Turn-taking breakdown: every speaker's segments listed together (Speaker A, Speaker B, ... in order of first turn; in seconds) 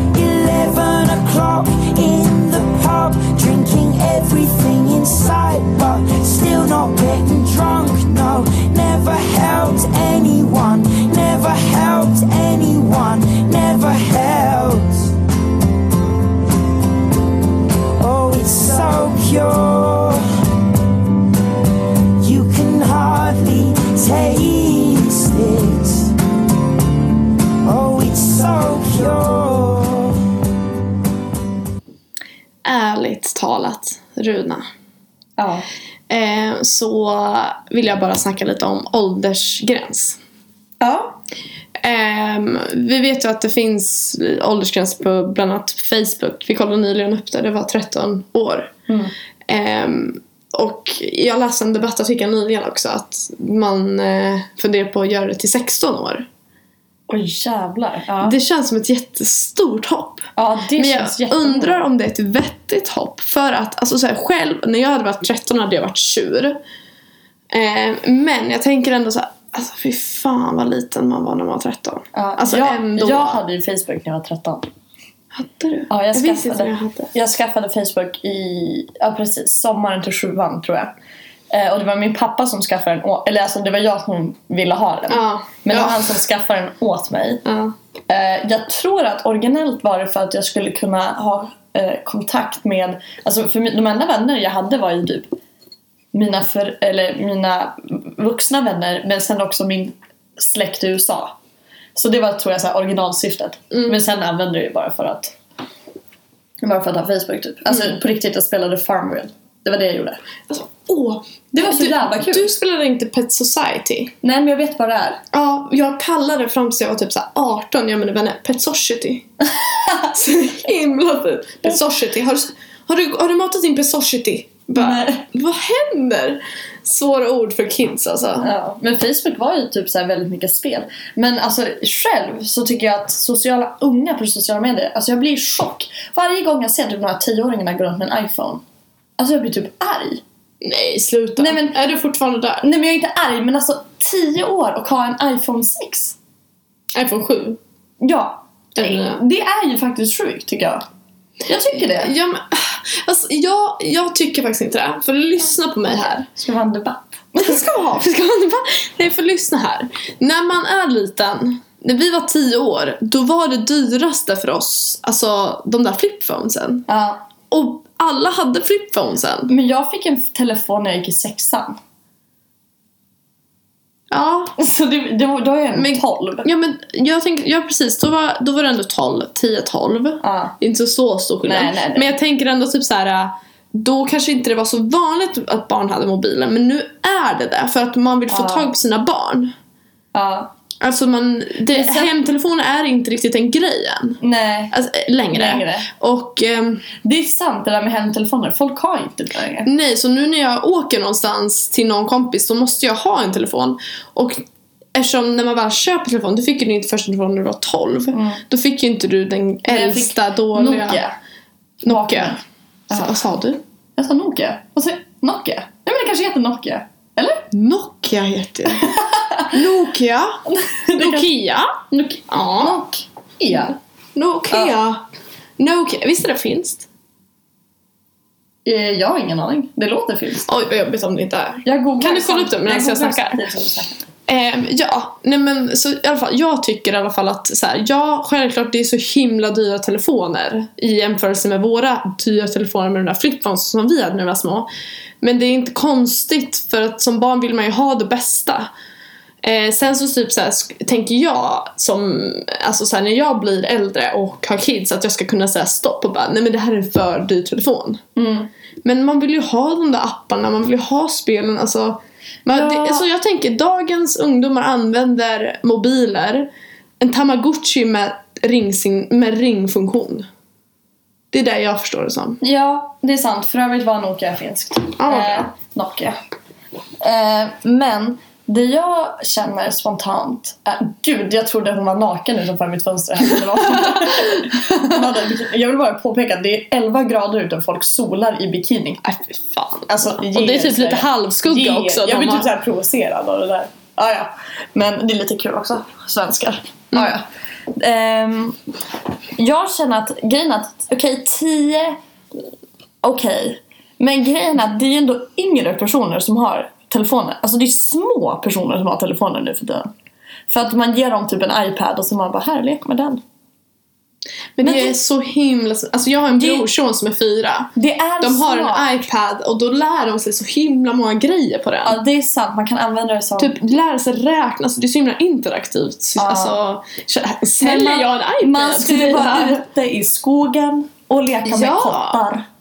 Speaker A: 0.1-15.2, 18.0-20.3, 22.2-26.1, 27.6-30.2
Speaker B: 32.6-34.6, 36.1-40.2, 41.8-48.7, 49.5-56.3, 58.2-66.6, 67.5-73.4, 75.3-77.1, 85.1-86.1, 87.5-87.8, 103.7-104.0, 110.5-114.1, 115.3-119.3, 120.0-128.5, 140.6-142.6, 146.9-147.6, 148.8-149.2, 151.7-156.3, 157.4-166.9, 167.5-169.5, 174.1-174.5, 175.8-189.5, 190.8-194.2, 194.7-196.9, 199.7-211.0, 211.8-212.4, 212.9-213.6, 217.5-218.9, 219.5-220.4, 221.0-221.8, 222.3-222.8, 224.2-225.0, 225.6-226.9, 230.5-233.4, 234.3-244.7, 245.2-248.7, 249.4-258.0, 258.8-270.3, 271.3-272.4, 275.0-275.5, 283.7-284.5, 289.0-292.5, 314.6-322.0, 323.4-329.6, 331.4-332.2
Speaker C: 35.4-35.6, 40.8-41.2, 57.1-58.4, 60.4-61.9, 72.1-74.7, 75.9-80.9, 81.5-87.4, 88.1-95.3, 96.1-101.4, 102.0-105.4, 106.6-110.2, 111.5-112.5, 114.2-115.2, 124.8-125.2, 128.4-138.6, 139.2-140.2, 141.4-141.8, 142.6-146.2, 148.0-150.8, 151.5-152.1, 156.3-157.7, 166.9-167.2, 169.5-171.8, 174.6-176.5, 180.2-180.6, 181.4-182.1, 188.3-188.7, 190.1-190.5, 191.7-192.1, 194.2-194.8, 195.3-195.9, 197.0-199.7, 208.1-208.4, 209.7-211.1, 211.8-213.2, 214.0-217.5, 218.8-219.5, 220.5-221.3, 221.9-223.8, 224.5-224.8, 228.7-230.5, 231.7-234.1, 258.2-258.5, 262.5-263.0, 272.4-276.2, 277.0-289.0, 289.9-298.6, 299.4-302.0, 303.0-309.9, 310.5-313.2, 314.6-314.9, 316.3-316.7, 317.8-318.9, 321.9-323.6, 326.2-326.6, 327.6-332.4